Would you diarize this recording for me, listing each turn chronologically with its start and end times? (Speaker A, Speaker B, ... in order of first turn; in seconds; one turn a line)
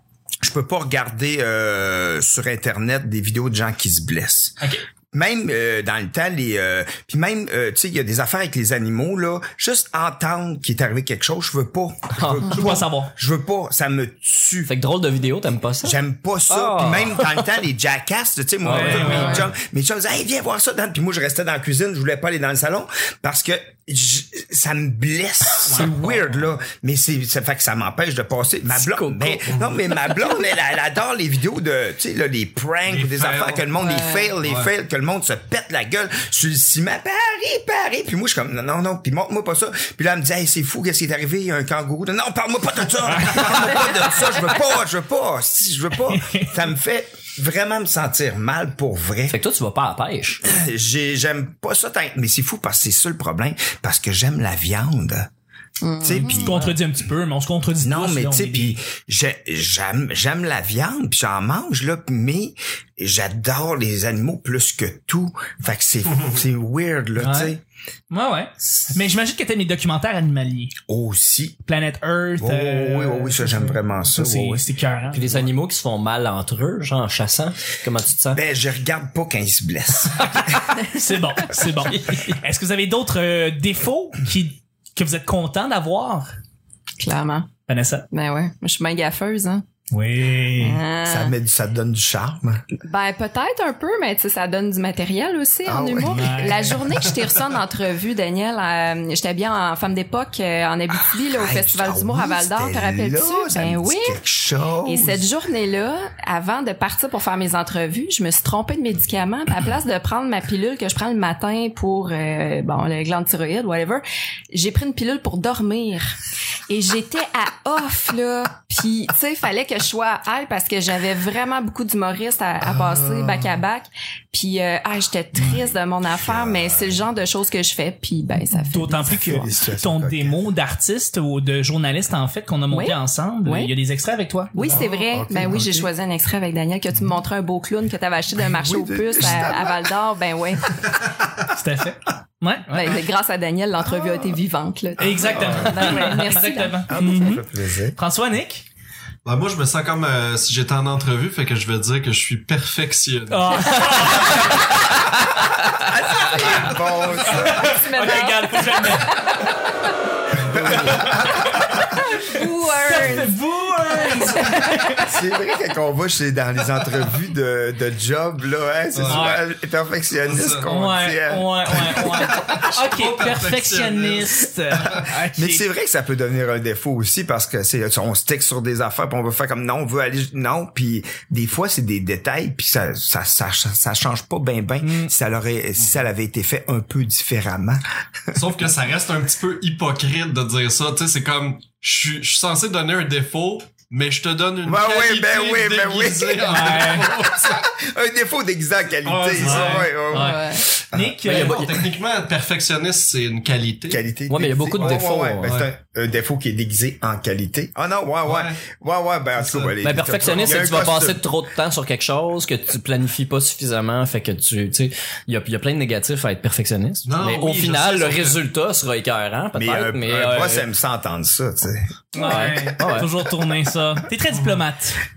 Speaker A: 0.4-4.6
Speaker A: 5.1-14.7
Speaker B: 12.2-12.6
Speaker C: 12.5-13.1
Speaker B: 14.7-17.6
Speaker A: 15.8-49.4
Speaker B: 18.6-19.4
Speaker C: 18.8-19.4
Speaker D: 19.0-19.4
Speaker B: 28.7-29.6
Speaker E: 29.5-29.8
Speaker E: 32.9-33.7
Speaker D: 33.8-34.3
Speaker E: 34.4-34.7
Speaker C: 43.1-43.4
Speaker C: 46.1-46.5
Speaker B: 49.3-50.4
Speaker A: 50.4-55.3
Speaker D: 55.8-56.7
Speaker A: 56.0-56.6
Speaker C: 56.4-58.8
Speaker A: 57.8-67.6
Speaker C: 67.2-67.5
Speaker C: 68.1-70.7
Speaker A: 70.9-71.6
Speaker C: 71.7-75.3
Speaker A: 72.4-74.6
Speaker B: 75.1-78.4
Speaker A: 78.3-80.8
Speaker C: 80.9-86.3
Speaker B: 81.9-82.3
Speaker D: 87.0-87.5
Speaker C: 87.7-88.1
Speaker D: 88.1-89.6
Speaker C: 89.9-90.8
Speaker D: 90.6-91.3
Speaker A: 91.0-92.7
Speaker D: 92.8-104.2
Speaker A: 95.7-96.8
Speaker C: 96.2-96.6
Speaker A: 101.3-105.3
Speaker D: 104.8-116.2
Speaker D: 116.7-129.1
Speaker A: 122.6-123.6
Speaker A: 125.4-127.1
Speaker C: 128.7-134.6
Speaker A: 129.0-130.4
Speaker D: 132.7-133.7
Speaker D: 134.5-140.7
Speaker A: 134.6-135.9
Speaker A: 138.5-139.8
Speaker C: 141.6-142.9
Speaker D: 142.7-146.8
Speaker A: 145.0-146.1
Speaker C: 145.0-147.4
Speaker A: 146.9-148.0
Speaker C: 148.0-148.7
Speaker E: 149.2-154.4
Speaker C: 153.3-155.3
Speaker A: 155.9-157.8
Speaker D: 157.2-159.5
Speaker C: 157.6-159.2
Speaker A: 160.4-161.9
Speaker C: 160.7-161.2
Speaker D: 161.9-163.3
Speaker C: 162.9-164.9
Speaker D: 163.9-165.2
Speaker A: 164.9-172.7
Speaker E: 168.9-169.3
Speaker C: 169.1-169.4
Speaker E: 170.2-170.8
Speaker C: 170.8-175.6
Speaker E: 171.7-175.2
Speaker A: 174.8-187.8
Speaker C: 184.8-185.1
Speaker E: 188.3-197.7
Speaker A: 194.7-201.2
Speaker C: 196.5-197.1
Speaker E: 199.0-200.1
Speaker C: 199.5-200.4
Speaker D: 200.1-200.7
Speaker C: 201.0-201.6
Speaker B: 201.2-201.9
Speaker E: 201.2-204.0
Speaker A: 203.9-211.2
Speaker B: 204.3-205.6
Speaker E: 205.4-205.7
Speaker E: 208.2-208.6
Speaker E: 209.4-210.7
Speaker B: 209.8-220.7
Speaker E: 217.1-218.4
Speaker A: 219.5-222.5
Speaker B: 222.2-223.1
Speaker C: 222.2-225.0
Speaker E: 224.3-224.7